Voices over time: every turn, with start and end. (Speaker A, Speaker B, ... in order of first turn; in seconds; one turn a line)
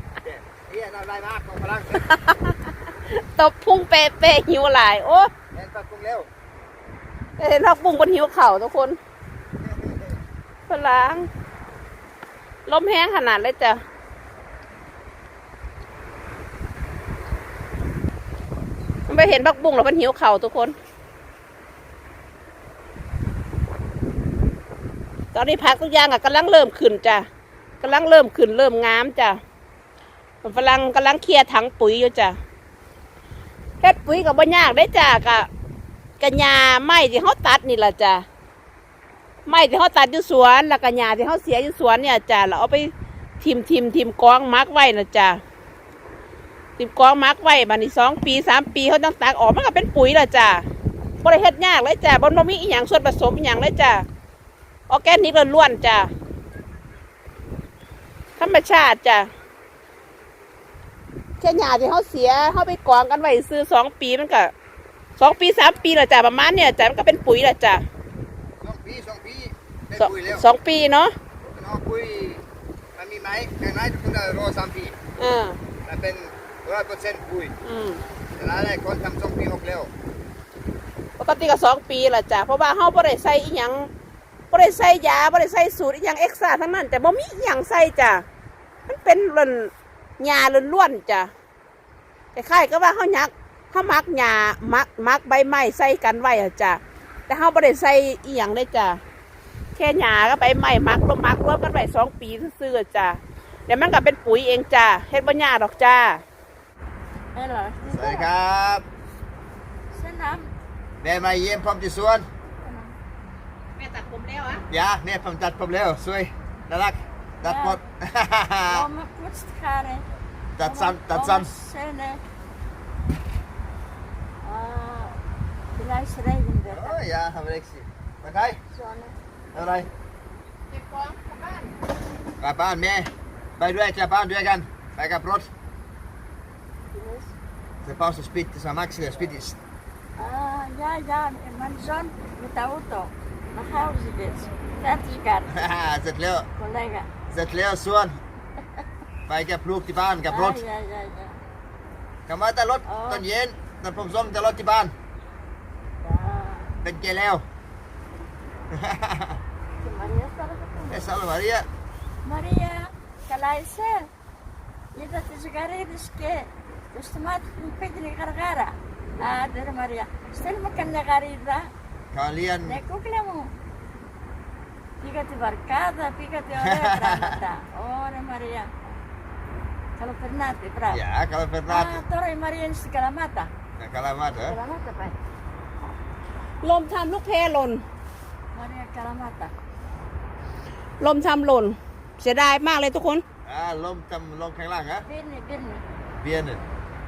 Speaker A: 0.2-2.1
Speaker B: 2.1-5.3
Speaker A: 5.5-6.3
Speaker B: 7.4-9.0
Speaker A: 9.6-10.1
Speaker B: 10.7-11.3
Speaker B: 12.7-13.8
Speaker B: 19.1-20.8
Speaker B: 25.3-27.2
Speaker B: 27.8-29.4
Speaker B: 30.4-32.4
Speaker B: 33.8-35.5
Speaker B: 36.2-38.2
Speaker B: 39.5-45.4
Speaker B: 46.8-50.7
Speaker B: 51.2-54.0
Speaker B: 54.9-56.1
Speaker B: 58.4-59.3
Speaker B: 61.4-64.5
Speaker B: 65.2-67.8
Speaker A: 68.6-70.5
Speaker B: 70.0-71.2
Speaker A: 71.4-72.4
Speaker A: 73.0-75.0
Speaker B: 75.2-75.6
Speaker A: 75.9-77.5
Speaker B: 77.7-78.0
Speaker A: 78.4-79.9
Speaker B: 81.2-83.9
Speaker B: 84.5-88.2
Speaker B: 88.9-91.3
Speaker B: 92.3-99.0
Speaker B: 99.8-106.2
Speaker C: 107.3-108.3
Speaker A: 107.9-108.8
Speaker C: 109.9-110.5
Speaker A: 111.0-112.3
Speaker C: 112.6-113.0
Speaker B: 113.8-114.6
Speaker A: 114.7-118.9
Speaker C: 117.4-117.8
Speaker C: 118.7-120.1
Speaker A: 120.6-121.6
Speaker C: 120.6-122.2
Speaker C: 124.4-125.2
Speaker C: 125.8-127.0
Speaker A: 126.7-128.6
Speaker C: 128.7-129.2
Speaker A: 129.5-129.9
Speaker B: 130.7-131.7
Speaker A: 132.4-135.5
Speaker C: 136.9-137.3
Speaker A: 137.8-139.6
Speaker C: 140.2-145.6
Speaker A: 145.5-146.5
Speaker C: 146.6-147.1
Speaker A: 147.3-148.2
Speaker A: 149.3-150.6
Speaker C: 150.3-151.4
Speaker A: 152.3-154.9
Speaker C: 152.9-153.2
Speaker C: 156.0-156.8
Speaker A: 156.8-157.4
Speaker A: 158.7-159.4
Speaker C: 159.8-161.1
Speaker A: 160.9-161.7
Speaker C: 162.2-164.1
Speaker C: 164.9-171.7
Speaker A: 172.1-172.8
Speaker C: 172.7-173.6
Speaker C: 175.0-178.7
Speaker A: 176.6-177.4
Speaker C: 180.0-181.0
Speaker A: 180.9-182.0
Speaker C: 181.7-183.5
Speaker A: 183.8-184.6
Speaker C: 184.5-185.2
Speaker B: 186.6-187.8
Speaker C: 188.5-189.6
Speaker B: 191.0-193.2
Speaker A: 193.4-195.1
Speaker C: 195.1-195.8
Speaker A: 196.2-196.6